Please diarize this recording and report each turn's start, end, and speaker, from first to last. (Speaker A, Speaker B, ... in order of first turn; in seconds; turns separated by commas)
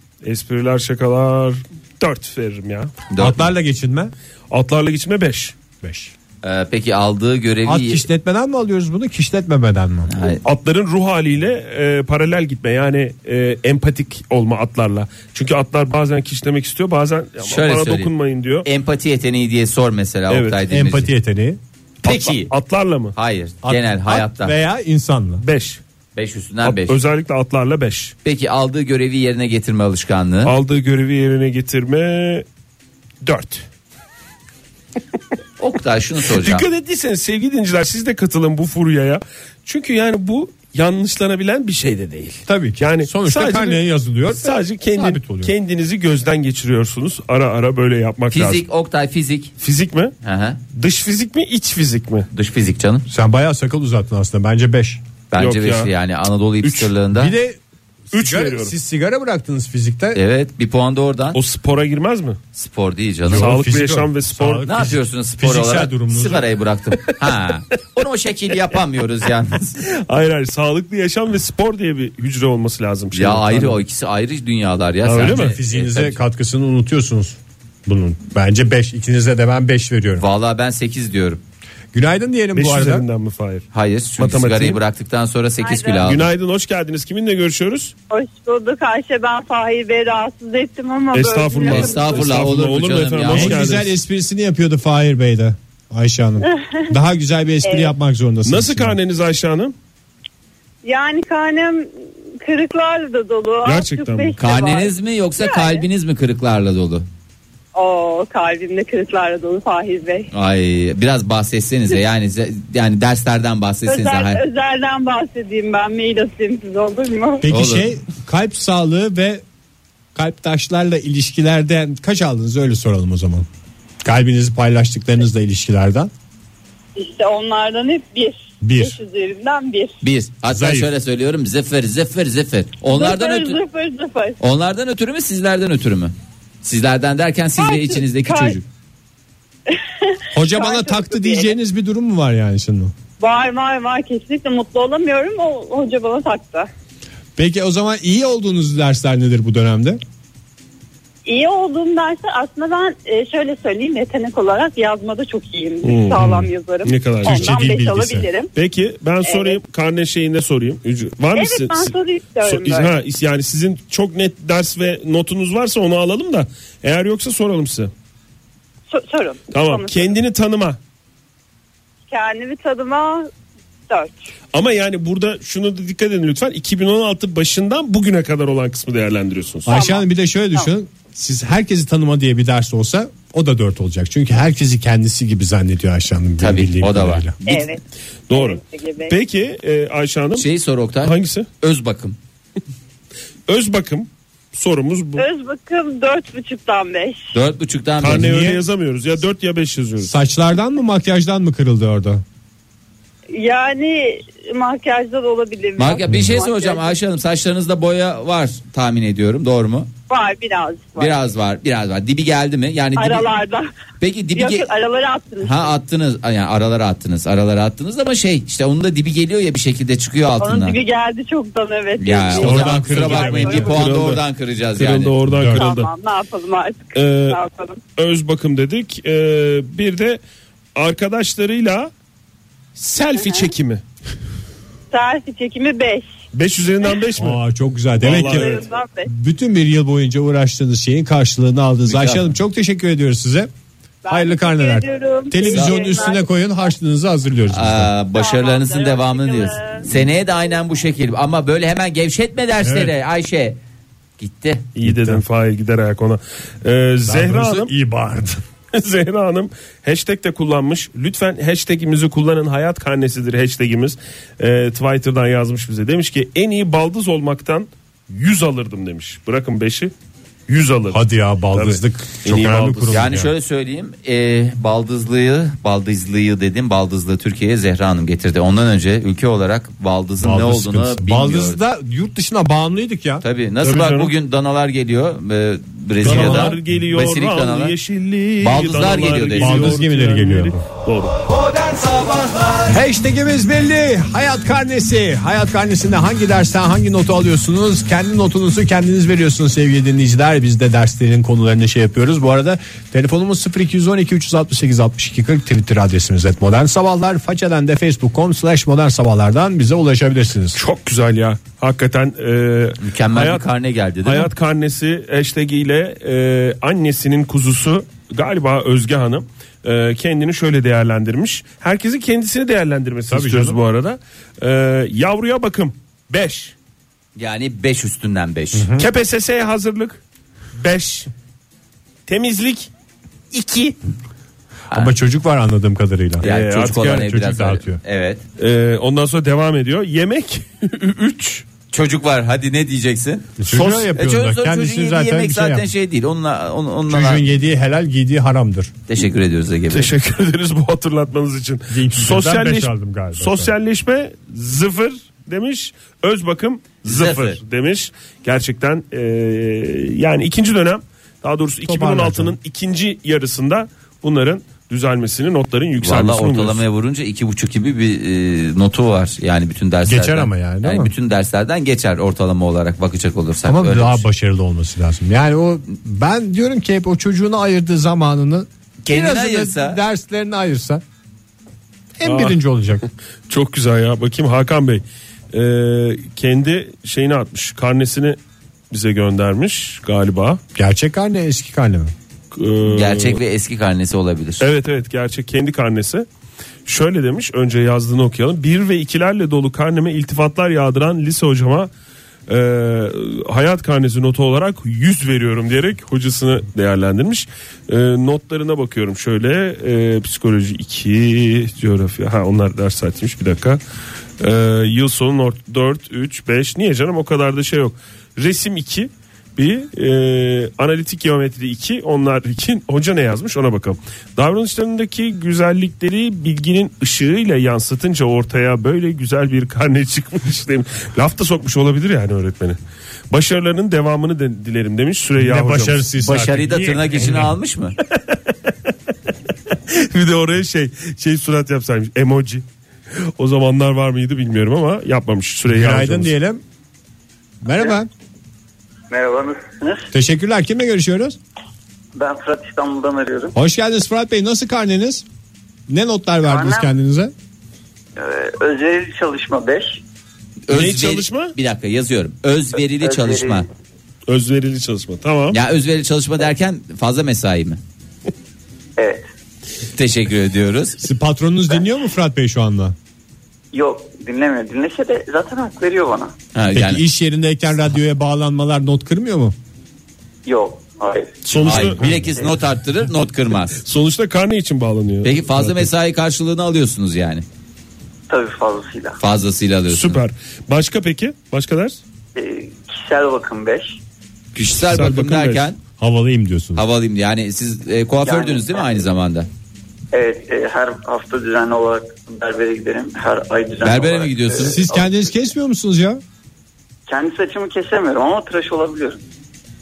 Speaker A: 0.2-2.9, Speaker B: 3.1-3.5, Speaker C: 3.2-4.1, Speaker A: 4.5-5.5, Speaker C: 5.8-6.1, Speaker B: 6.4-8.0, Speaker C: 7.7-10.1, Speaker B: 10.1-10.4, Speaker A: 10.4-18.7, Speaker B: 17.4-18.1, Speaker B: 18.6-21.1, Speaker A: 20.3-20.6, Speaker C: 20.6-21.6, Speaker B: 22.0-22.5, Speaker A: 22.0-23.1, Speaker B: 23.1-24.5, Speaker C: 23.6-25.4, Speaker A: 25.4-25.8, Speaker B: 26.1-27.0, Speaker A: 26.6-28.1, Speaker B: 28.2-30.5, Speaker A: 30.4-32.4, Speaker A: 33.2-33.6, Speaker B: 35.6-36.6, Speaker A: 36.3-48.6, Speaker C: 42.5-45.5, Speaker B: 48.3-49.5, Speaker A: 49.6-50.1, Speaker B: 50.2-50.6, Speaker A: 50.7-52.3, Speaker B: 52.3-53.0, Speaker C: 53.1-55.0, Speaker B: 55.3-57.3, Speaker A: 55.4-55.9, Speaker A: 56.6-56.9, Speaker C: 57.1-57.6, Speaker C: 58.1-60.2, Speaker A: 58.1-58.7, Speaker B: 60.1-61.4, Speaker A: 61.3-62.4, Speaker B: 62.5-63.6, Speaker C: 63.2-66.5, Speaker A: 63.3-64.7, Speaker B: 64.7-69.8, Speaker A: 69.9-73.8, Speaker B: 73.1-76.2, Speaker A: 75.0-75.5, Speaker C: 75.2-80.2, Speaker B: 80.2-81.4, Speaker C: 81.9-83.0, Speaker A: 82.5-83.7, Speaker B: 83.7-86.3, Speaker A: 84.2-84.8, Speaker D: 85.6-86.1, Speaker A: 86.0-87.9, Speaker D: 88.1-92.3, Speaker A: 91.1-94.0, Speaker B: 91.7-93.7, Speaker C: 93.3-99.0, Speaker D: 96.4-96.9, Speaker D: 97.6-97.9, Speaker A: 98.4-99.7, Speaker D: 100.8-101.9, Speaker D: 102.4-105.8, Speaker A: 103.6-104.4, Speaker B: 104.4-107.0, Speaker D: 107.7-110.3, Speaker B: 110.3-114.4, Speaker D: 113.8-117.5, Speaker C: 117.4-119.4, Speaker B: 117.5-117.9, Speaker C: 120.1-123.5, Speaker C: 124.0-126.1, Speaker D: 127.0-130.0, Speaker C: 128.6-129.0, Speaker B: 130.0-133.6, Speaker C: 130.5-130.9, Speaker D: 132.8-134.4, Speaker B: 134.4-138.7, Speaker D: 137.6-138.6, Speaker D: 139.7-141.5, Speaker C: 140.3-142.9, Speaker D: 143.2-146.7, Speaker C: 147.4-150.0, Speaker D: 151.2-158.5, Speaker A: 155.8-157.6, Speaker C: 156.2-156.5, Speaker C: 157.2-158.3, Speaker A: 158.5-167.9, Speaker D: 159.2-159.6, Speaker D: 161.3-162.9, Speaker D: 168.9-170.1, Speaker A: 169.5-170.8, Speaker D: 172.1-173.3, Speaker D: 173.9-174.3, Speaker A: 174.5-179.8, Speaker C: 179.7-187.4, Speaker D: 179.7-180.0, Speaker B: 186.4-187.2, Speaker D: 187.4-189.1, Speaker A: 188.3-190.5, Speaker B: 190.3-192.2, Speaker A: 191.0-191.5, Speaker A: 193.5-195.2, Speaker D: 195.2-197.3, Speaker B: 197.3-198.3, Speaker A: 198.0-200.1, Speaker C: 198.0-198.6, Speaker C: 200.0-202.2, Speaker D: 203.3-206.9, Speaker B: 205.8-209.9, Speaker C: 206.1-206.3, Speaker D: 210.1-211.2, Speaker B: 210.9-213.3, Speaker D: 212.9-213.7, Speaker B: 214.0-214.7, Speaker D: 214.3-215.7, Speaker B: 215.4-220.8, Speaker D: 220.4-223.7, Speaker B: 222.0-225.2, Speaker C: 222.3-223.8, Speaker A: 223.0-224.2, Speaker A: 224.7-225.9, Speaker C: 225.2-225.7, Speaker D: 225.5-227.8, Speaker A: 226.9-227.4, Speaker A: 227.9-230.2, Speaker A: 230.8-231.9, Speaker A: 232.8-233.8, Speaker D: 233.1-233.5, Speaker D: 234.9-236.1, Speaker A: 236.3-237.4, Speaker C: 237.2-243.5, Speaker A: 238.0-238.7, Speaker D: 238.1-239.1, Speaker B: 241.9-242.2, Speaker D: 244.0-246.3, Speaker C: 244.1-247.9, Speaker B: 245.5-246.0, Speaker B: 247.5-253.6, Speaker D: 248.1-249.9, Speaker C: 252.6-252.9, Speaker B: 254.2-254.7, Speaker A: 254.8-257.7, Speaker C: 254.8-255.2, Speaker C: 257.1-258.4, Speaker A: 258.7-269.9, Speaker A: 270.5-273.1, Speaker C: 270.9-273.3, Speaker B: 272.9-281.6, Speaker C: 280.2-283.2, Speaker B: 283.2-287.7, Speaker A: 283.6-284.1, Speaker C: 286.0-286.6, Speaker A: 286.0-291.2, Speaker B: 288.4-289.8, Speaker C: 289.4-290.6, Speaker C: 292.7-310.6, Speaker A: 310.5-313.4, Speaker B: 312.8-314.3, Speaker A: 314.0-326.5, Speaker C: 323.1-323.6, Speaker B: 327.1-328.7, Speaker C: 328.5-328.9, Speaker A: 328.8-330.0, Speaker A: 330.6-331.1, Speaker A: 332.1-332.7, Speaker A: 333.3-333.7, Speaker C: 334.7-337.8, Speaker A: 336.2-337.1, Speaker B: 336.2-338.2, Speaker A: 338.4-341.4, Speaker B: 341.7-347.2, Speaker C: 343.4-345.7, Speaker C: 346.9-348.7, Speaker B: 348.9-349.9, Speaker A: 349.7-366.6, Speaker C: 351.7-353.5, Speaker B: 356.8-357.4, Speaker C: 361.6-362.4, Speaker B: 365.8-374.0, Speaker C: 369.8-370.9, Speaker C: 373.4-380.8, Speaker B: 378.8-379.8, Speaker C: 382.0-382.9, Speaker A: 382.0-382.4, Speaker A: 383.3-388.2, Speaker A: 388.7-390.4, Speaker C: 390.6-391.9, Speaker A: 392.3-393.2, Speaker B: 392.6-394.4, Speaker A: 394.4-396.1, Speaker A: 396.6-401.7, Speaker A: 402.3-413.6, Speaker A: 414.2-432.6, Speaker A: 433.1-435.9, Speaker C: 435.2-437.3, Speaker B: 436.0-437.8, Speaker A: 439.5-442.4, Speaker A: 443.2-446.1, Speaker C: 445.5-446.4, Speaker C: 447.4-447.9, Speaker E: 448.9-449.9, Speaker C: 449.9-451.2, Speaker E: 451.9-453.4, Speaker C: 453.3-455.0, Speaker C: 455.7-457.1, Speaker E: 456.2-456.7, Speaker E: 457.9-459.8, Speaker B: 460.5-463.5, Speaker A: 460.5-461.3, Speaker E: 462.8-463.4, Speaker A: 464.1-465.4, Speaker B: 465.3-467.6, Speaker E: 468.8-469.1, Speaker B: 469.7-470.8, Speaker C: 470.8-472.8, Speaker E: 473.5-476.1, Speaker B: 476.3-476.8, Speaker C: 476.5-479.3, Speaker E: 480.2-481.6, Speaker A: 481.2-481.9, Speaker B: 481.4-483.6, Speaker A: 483.6-485.7, Speaker B: 485.0-487.2, Speaker E: 488.1-489.0, Speaker B: 489.0-490.0, Speaker A: 489.7-491.8, Speaker E: 492.1-493.8, Speaker B: 494.3-495.6, Speaker A: 494.6-495.5, Speaker C: 495.8-496.6, Speaker B: 496.6-499.3, Speaker E: 498.0-498.8, Speaker E: 499.9-504.9, Speaker B: 503.6-504.6, Speaker C: 504.4-506.0, Speaker E: 506.9-509.0